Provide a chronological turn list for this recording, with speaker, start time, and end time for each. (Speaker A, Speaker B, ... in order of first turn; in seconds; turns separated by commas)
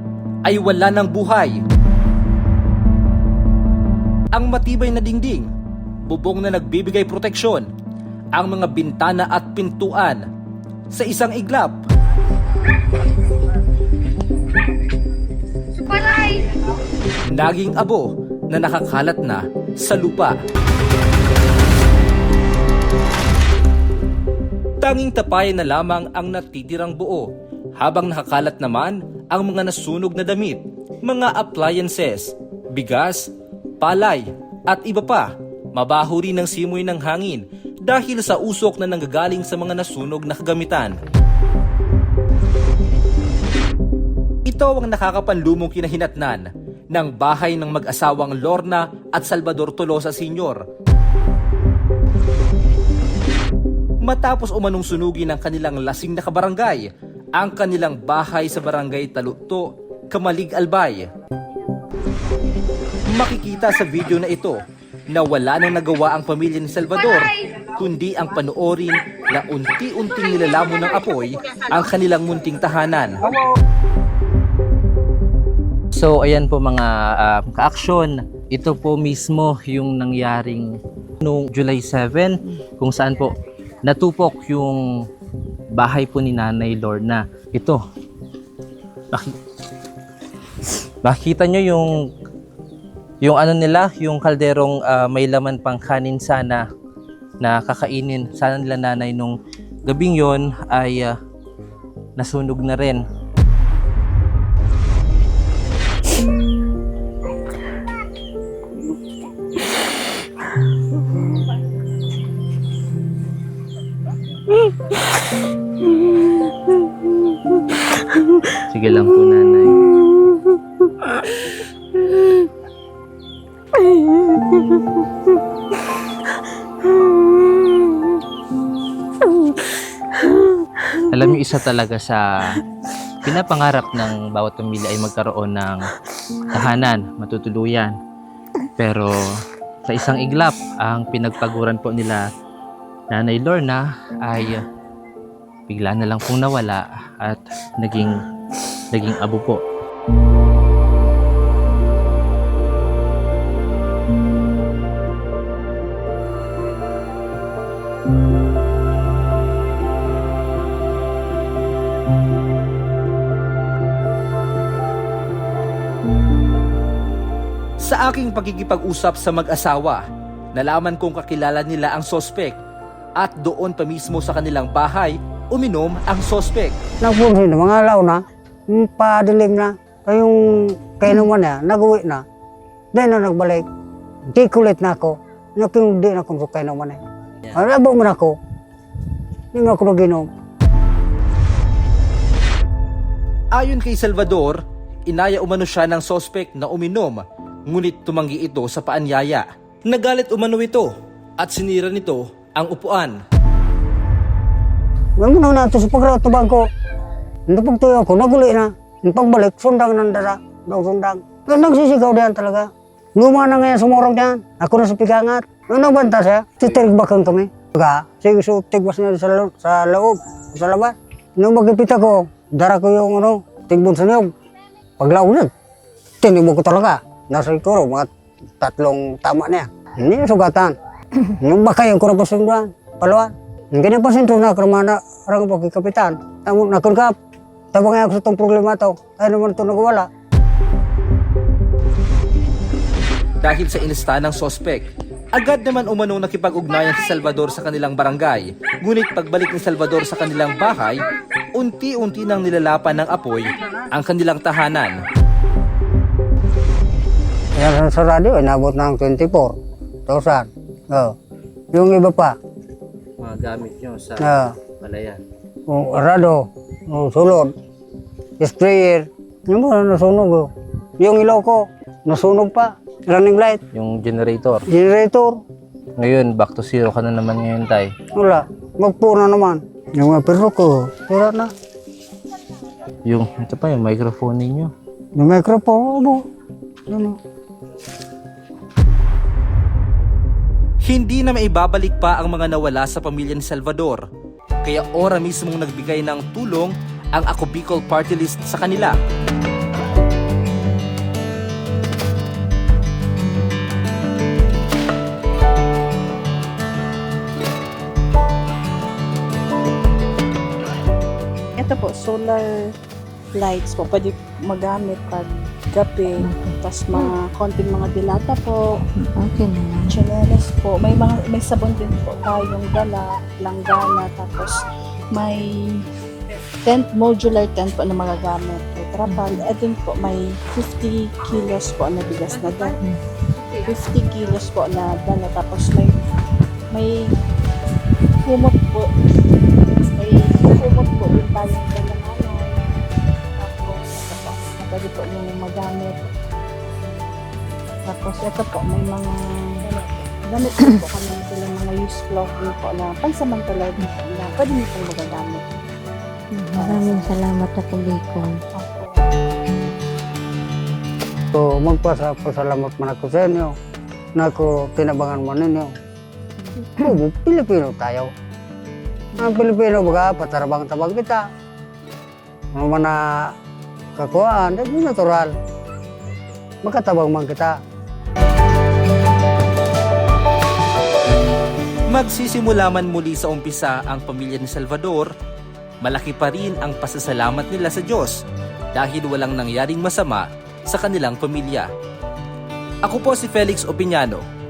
Speaker A: 0.4-1.6, Speaker A: 4.3-5.5, Speaker A: 6.0-7.7, Speaker A: 8.3-10.2, Speaker A: 10.9-11.8, Speaker A: 17.3-20.4, Speaker A: 24.8-41.0, Speaker A: 44.4-50.6, Speaker A: 54.0-61.1, Speaker A: 63.1-64.6, Speaker A: 65.1-73.2, Speaker B: 75.9-84.8, Speaker B: 85.7-87.8, Speaker B: 91.0-92.1, Speaker B: 93.2-96.7, Speaker B: 97.4-101.2, Speaker B: 102.2-103.0, Speaker B: 118.7-119.8, Speaker C: 123.9-124.8, Speaker C: 127.5-128.0, Speaker C: 130.3-130.8, Speaker B: 131.0-132.6, Speaker B: 133.2-135.8, Speaker B: 136.5-137.9, Speaker B: 138.8-139.3, Speaker B: 139.8-142.3, Speaker B: 143.1-144.6, Speaker B: 145.7-148.2, Speaker B: 148.9-149.6, Speaker A: 167.8-172.6, Speaker A: 173.2-176.8, Speaker D: 177.0-182.2, Speaker D: 182.9-183.7, Speaker D: 184.3-187.0, Speaker D: 187.5-188.3, Speaker D: 189.5-190.3, Speaker A: 193.5-203.2, Speaker D: 205.2-206.6, Speaker D: 207.5-224.3, Speaker D: 225.0-225.5, Speaker D: 226.2-228.1, Speaker D: 228.6-237.1, Speaker D: 237.7-240.1, Speaker A: 243.4-251.0, Speaker A: 251.5-255.0, Speaker D: 257.6-259.5, Speaker D: 260.1-261.1, Speaker D: 261.7-262.4, Speaker B: 263.2-265.2, Speaker D: 264.2-264.6, Speaker D: 265.7-267.5, Speaker D: 268.4-273.6, Speaker B: 273.7-274.6, Speaker D: 274.7-275.4, Speaker B: 276.0-277.9, Speaker D: 278.1-281.5, Speaker B: 283.0-284.7, Speaker D: 285.1-286.2, Speaker D: 286.9-287.2, Speaker A: 290.8-294.0, Speaker A: 294.6-299.0, Speaker E: 311.6-312.7, Speaker E: 313.3-318.8, Speaker C: 316.2-317.1, Speaker C: 318.9-319.9, Speaker E: 319.9-325.9, Speaker E: 326.6-332.8, Speaker C: 329.1-329.4, Speaker E: 333.5-336.0, Speaker E: 336.7-337.1, Speaker E: 338.2-339.0, Speaker E: 339.7-342.7, Speaker E: 343.3-346.1, Speaker E: 347.8-355.4, Speaker C: 356.3-358.4, Speaker E: 356.6-357.1, Speaker E: 358.6-359.1, Speaker D: 361.3-363.5, Speaker D: 364.1-365.7, Speaker C: 366.4-366.9, Speaker D: 366.8-368.1, Speaker D: 369.1-371.2, Speaker D: 372.5-373.3, Speaker D: 373.9-375.3, Speaker D: 376.6-377.6, Speaker A: 381.9-385.1, Speaker A: 385.8-391.7, Speaker A: 392.8-394.2